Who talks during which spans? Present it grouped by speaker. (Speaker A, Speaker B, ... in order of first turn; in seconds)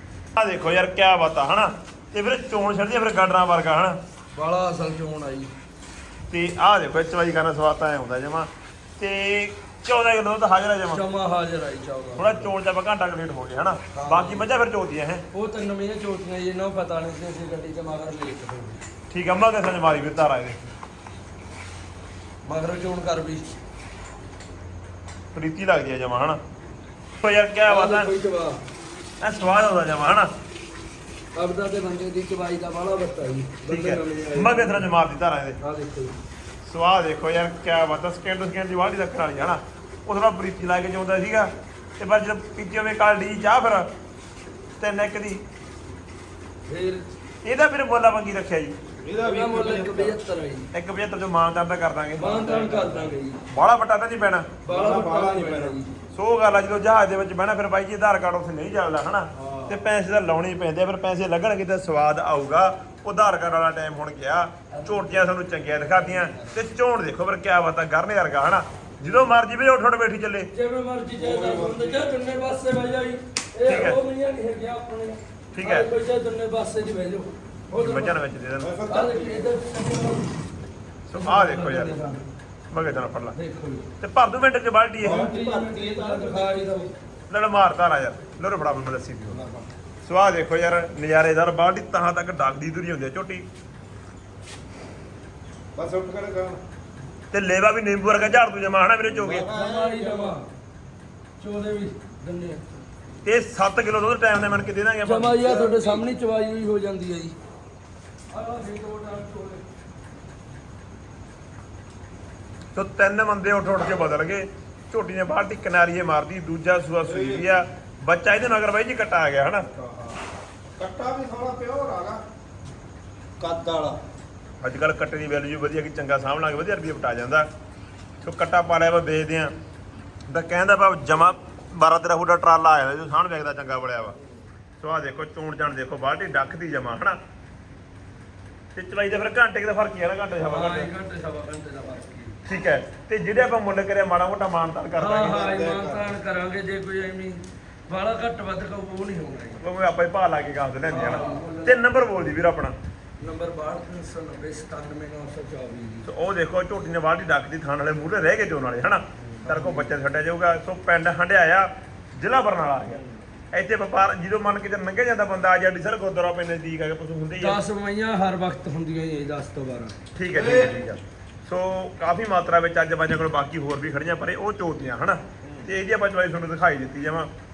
Speaker A: 0.3-4.0, 6.3-11.0, 12.2-15.2, 19.1-20.6, 25.3-26.4, 27.2-28.1, 29.2-30.3, 33.6-35.6, 36.6-43.9, 44.8-45.4, 47.4-48.7, 50.7-54.5, 56.1-70.5, 73.6-74.0, 75.5-75.9, 77.7-78.7, 81.1-82.0, 82.7-83.4, 84.0-85.2, 87.3-89.4, 90.0-93.5, 97.3-99.5, 103.2-105.4, 112.7-119.7, 124.6-127.5, 128.2-129.5, 130.3-134.2, 134.8-137.2, 138.7-140.9, 142.4-145.4, 149.6-152.8, 156.0-167.6, 170.1-177.3
Speaker B: 4.3-5.5, 10.9-12.5, 13.9-14.4, 15.3-18.8, 22.4-23.5, 27.7-28.6, 31.3-34.9, 35.6-36.2, 46.7-47.1, 49.2-50.7, 52.2-53.4, 54.6-55.9, 64.7-65.3, 66.1-66.5, 70.5-78.2, 78.9-80.3, 81.1-82.3, 83.3-83.9, 85.0-86.9, 99.4-100.5, 101.4-102.8, 105.0-107.3, 108.3-109.6, 140.4-142.4, 145.0-149.6, 150.9-152.0, 153.2-156.1, 167.4-170.0
Speaker C: 49.0-50.2, 54.6-55.8, 59.3-59.8, 71.2-72.1, 78.6-79.5, 85.0-86.9, 89.3-89.7, 95.7-96.6, 99.1-100.4, 105.3-106.0, 117.0-117.5, 119.7-120.2, 120.8-122.2, 123.4-124.0, 145.2-146.2, 151.0-151.4, 159.2-159.7, 170.3-170.8, 175.4-175.7